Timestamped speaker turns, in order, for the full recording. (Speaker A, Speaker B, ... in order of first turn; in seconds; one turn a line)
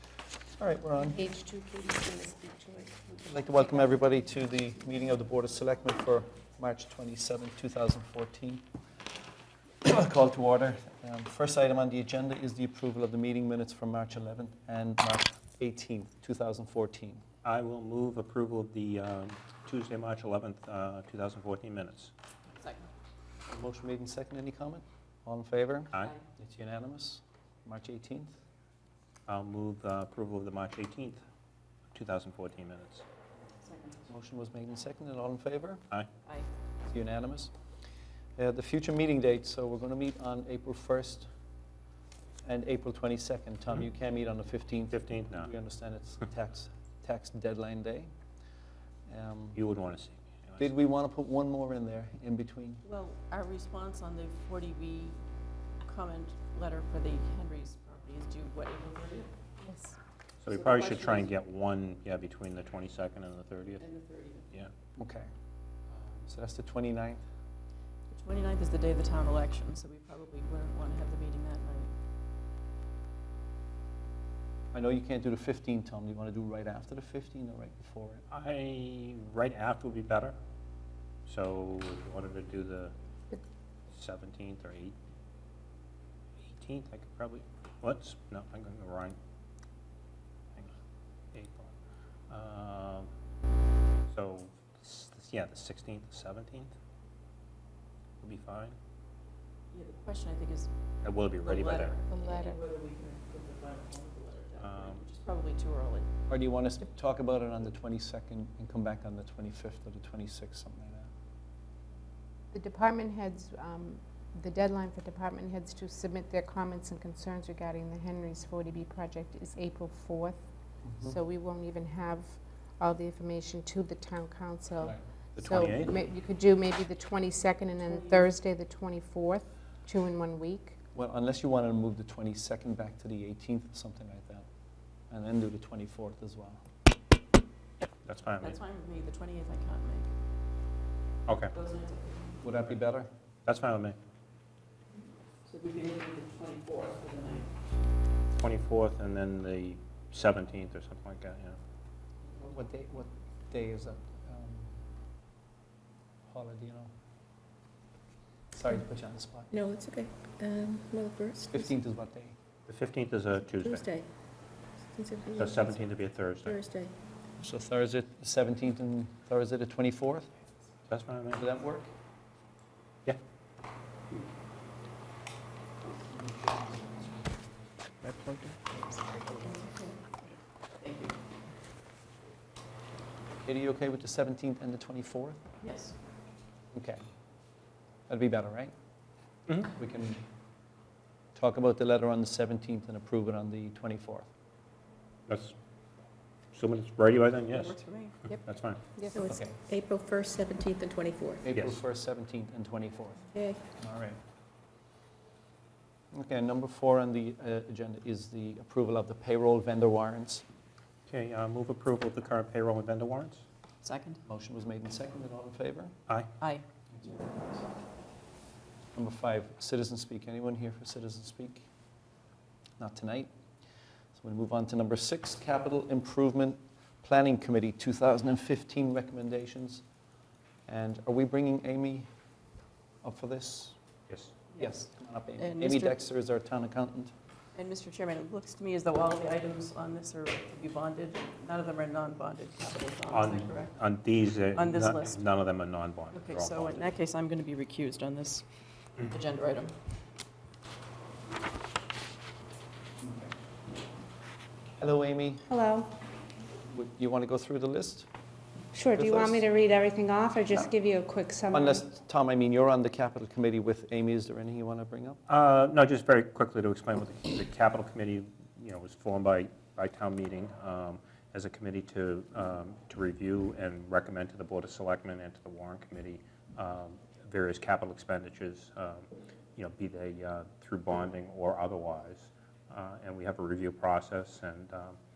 Speaker A: 0.6-1.2
Speaker B: 1.0-4.4
Speaker A: 3.2-8.7
Speaker A: 9.8-17.2
Speaker C: 17.4-22.1
Speaker D: 22.6-22.9
Speaker A: 23.5-28.4
Speaker C: 29.3-31.2
Speaker C: 31.9-33.0
Speaker D: 33.6-34.0
Speaker A: 34.1-35.8
Speaker A: 36.9-37.5
Speaker A: 38.4-41.3
Speaker A: 42.4-48.1
Speaker C: 44.9-45.5
Speaker A: 49.1-49.6
Speaker C: 49.5-50.7
Speaker A: 50.6-52.8
Speaker D: 52.8-55.2
Speaker D: 55.8-59.3
Speaker B: 59.6-59.9
Speaker C: 60.4-63.9
Speaker D: 60.5-61.3
Speaker D: 63.8-64.5
Speaker A: 65.0-65.3
Speaker A: 65.9-67.2
Speaker D: 68.1-71.9
Speaker A: 74.7-78.2
Speaker C: 78.3-80.3
Speaker C: 81.3-82.9
Speaker C: 83.9-85.0
Speaker C: 86.4-89.2
Speaker C: 91.3-91.7
Speaker C: 92.3-93.1
Speaker C: 94.1-96.7
Speaker C: 98.2-98.8
Speaker D: 99.7-100.7
Speaker C: 101.0-102.0
Speaker D: 101.4-106.1
Speaker B: 102.1-102.6
Speaker C: 104.6-105.0
Speaker A: 106.3-111.1
Speaker B: 112.5-120.4
Speaker A: 120.8-121.2
Speaker B: 121.0-130.8
Speaker C: 125.4-126.0
Speaker D: 127.8-128.3
Speaker A: 130.9-134.5
Speaker A: 135.1-136.6
Speaker C: 138.0-138.6
Speaker D: 138.4-140.1
Speaker C: 141.3-141.5
Speaker D: 141.5-142.6
Speaker A: 142.4-143.1
Speaker C: 143.4-143.9
Speaker D: 145.4-147.5
Speaker C: 148.3-151.6
Speaker A: 152.3-154.8
Speaker A: 156.3-156.9
Speaker A: 158.5-159.5
Speaker E: 159.5-161.7
Speaker A: 161.5-162.3
Speaker C: 162.7-163.8
Speaker E: 163.6-164.1
Speaker E: 164.9-165.6
Speaker C: 165.4-166.6
Speaker E: 166.4-166.9
Speaker A: 167.4-170.3
Speaker C: 170.9-171.4
Speaker A: 171.3-171.9
Speaker A: 176.3-177.0
Speaker D: 179.4-179.9
Speaker D: 180.8-181.2
Speaker A: 183.4-185.4
Speaker D: 185.6-185.9
Speaker A: 186.7-187.0
Speaker A: 188.1-188.7
Speaker A: 189.8-190.2
Speaker A: 191.3-194.3
Speaker C: 195.3-195.5
Speaker C: 196.5-197.8
Speaker D: 197.5-198.2
Speaker C: 198.3-198.8
Speaker B: 198.9-199.3
Speaker E: 199.1-201.4
Speaker A: 199.3-199.5
Speaker A: 201.4-203.2
Speaker C: 201.5-201.8
Speaker E: 203.3-203.6
Speaker A: 203.8-204.2
Speaker A: 206.1-210.4
Speaker C: 211.1-213.4
Speaker D: 213.8-214.2
Speaker A: 214.2-215.9
Speaker D: 216.4-216.6
Speaker A: 216.9-217.7
Speaker A: 218.9-221.7
Speaker A: 222.8-223.3
Speaker A: 224.2-229.8
Speaker A: 230.7-232.1
Speaker A: 233.0-233.8
Speaker C: 234.1-234.3
Speaker A: 234.6-237.1
Speaker D: 235.4-236.0
Speaker D: 237.5-243.8
Speaker C: 243.1-246.9
Speaker D: 244.5-245.3
Speaker D: 246.1-248.5
Speaker D: 249.0-249.7
Speaker A: 253.0-253.3
Speaker A: 254.8-255.5
Speaker B: 255.5-255.9
Speaker A: 256.7-258.1
Speaker B: 258.7-261.9
Speaker A: 258.9-259.5
Speaker A: 261.5-265.2
Speaker C: 265.3-285.0